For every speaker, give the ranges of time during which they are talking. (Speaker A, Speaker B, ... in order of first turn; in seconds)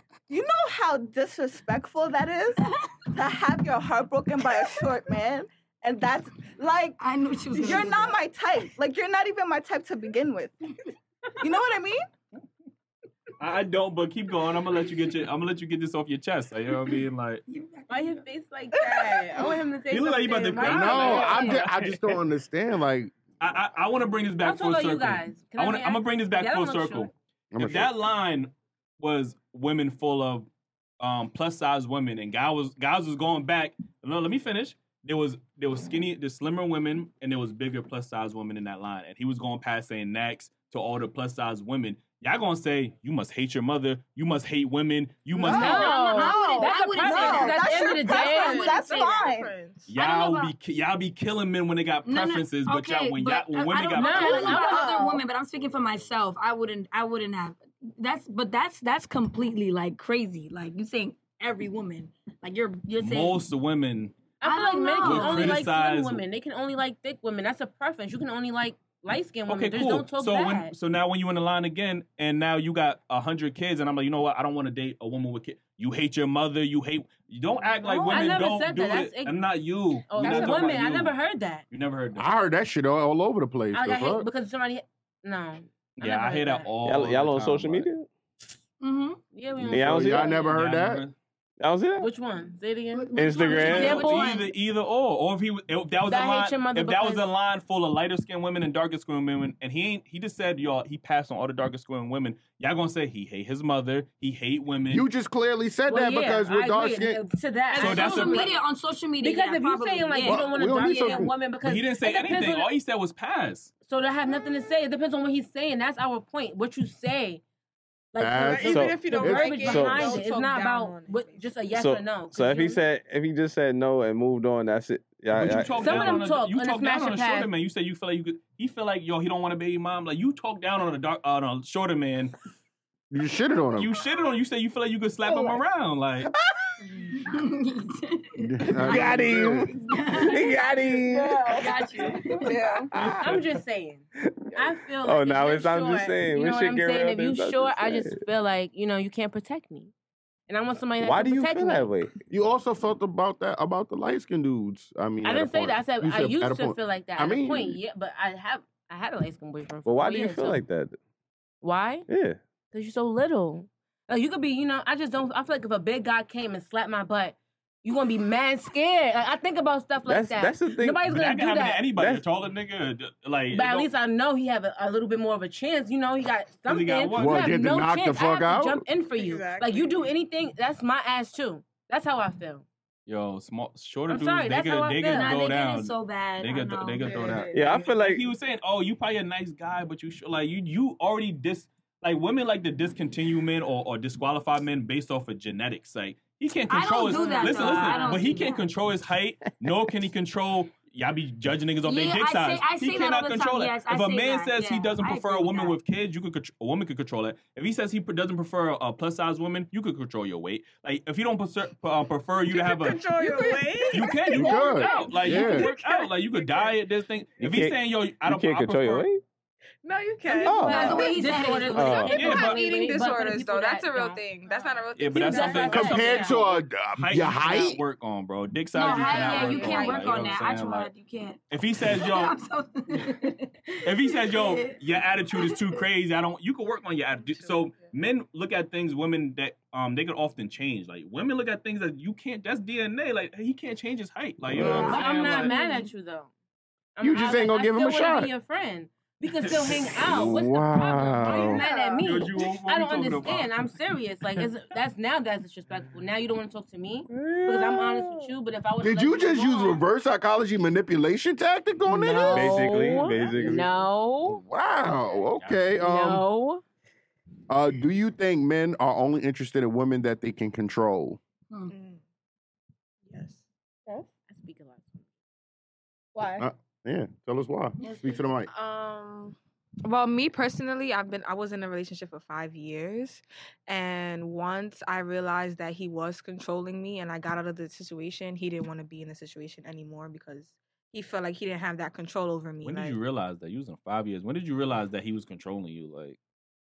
Speaker A: 0.3-7.0, 7.5-10.6, 11.4-12.1, 18.8-19.4, 45.4-49.5, 54.6-55.2, 140.0-140.6, 141.2-141.5, 142.4-142.8, 251.6-252.0, 276.1-276.5
Speaker B: 7.0-8.2, 17.5-18.2, 45.5-48.3, 50.0-50.5, 52.1-63.4, 64.4-65.6, 88.8-89.2, 92.9-94.5, 107.7-111.3, 137.1-139.1, 139.9-140.5, 141.5-142.5, 185.1-187.4, 196.7-198.7, 201.8-205.8, 220.5-222.3, 228.7-234.8, 235.3-235.8, 244.6-245.9, 277.8-278.2
Speaker C: 13.4-17.4, 19.9-22.1, 23.4-30.5, 31.0-45.9, 49.9-54.8, 63.0-64.2, 65.0-66.2, 69.5-81.2, 81.7-82.3, 86.0-87.9, 89.6-91.2, 93.6-105.1, 107.8-108.5, 111.6-113.7, 125.3-132.4, 133.8-136.3, 143.0-143.6, 171.1-173.9, 176.7-177.6, 183.1-219.1, 222.1-222.6, 224.9-230.9, 231.5-232.4, 233.8-245.6, 252.0-253.5, 265.4-265.7, 292.6-296.2
Speaker D: 17.9-21.7, 24.4-27.1, 45.5-49.1, 53.9-55.0, 64.4-70.7, 77.9-79.5, 80.1-81.6, 83.7-86.7, 89.3-90.5, 92.0-94.5, 96.1-97.3, 105.9-108.6, 109.2-112.7, 113.8-117.4, 118.1-122.8, 125.8-127.5, 143.1-144.0, 144.6-149.9, 150.5-151.9, 155.2-160.6, 161.6-162.1, 162.7-171.9, 173.5-182.7, 184.1-185.4, 220.6-226.4, 229.5-229.9, 244.7-246.3, 247.0-259.8, 261.9-264.4, 265.8-266.6, 274.3-275.0
Speaker E: 20.6-23.1, 27.5-27.9, 82.2-84.3, 89.7-91.0, 104.9-107.2, 110.2-111.3, 118.2-119.7, 133.1-133.9, 138.4-139.7, 152.3-157.8, 177.2-178.8, 214.3-215.7, 225.7-227.8, 247.0-248.3, 249.9-251.7, 258.8-262.7, 264.3-266.2, 267.5-271.2, 276.4-278.5
Speaker F: 47.7-49.9, 118.4-121.6, 142.4-142.9, 179.1-180.2, 187.0-187.8, 197.1-198.0, 212.5-216.8, 219.8-226.1, 228.9-230.0, 237.2-237.9, 271.7-272.0, 273.1-273.4, 278.5-293.0
Speaker G: 86.8-88.1, 89.7-90.3, 91.6-92.1, 93.2-94.1, 118.7-119.0, 119.6-120.2, 121.7-126.2, 138.8-141.5, 142.9-143.3, 144.2-148.2, 151.0-152.1, 159.9-161.0, 162.1-162.4, 170.1-171.0, 171.9-172.2, 187.5-188.2, 217.4-219.2, 220.4-221.1, 221.7-222.2, 244.4-244.9, 250.7-251.5, 257.1-258.3, 262.3-263.7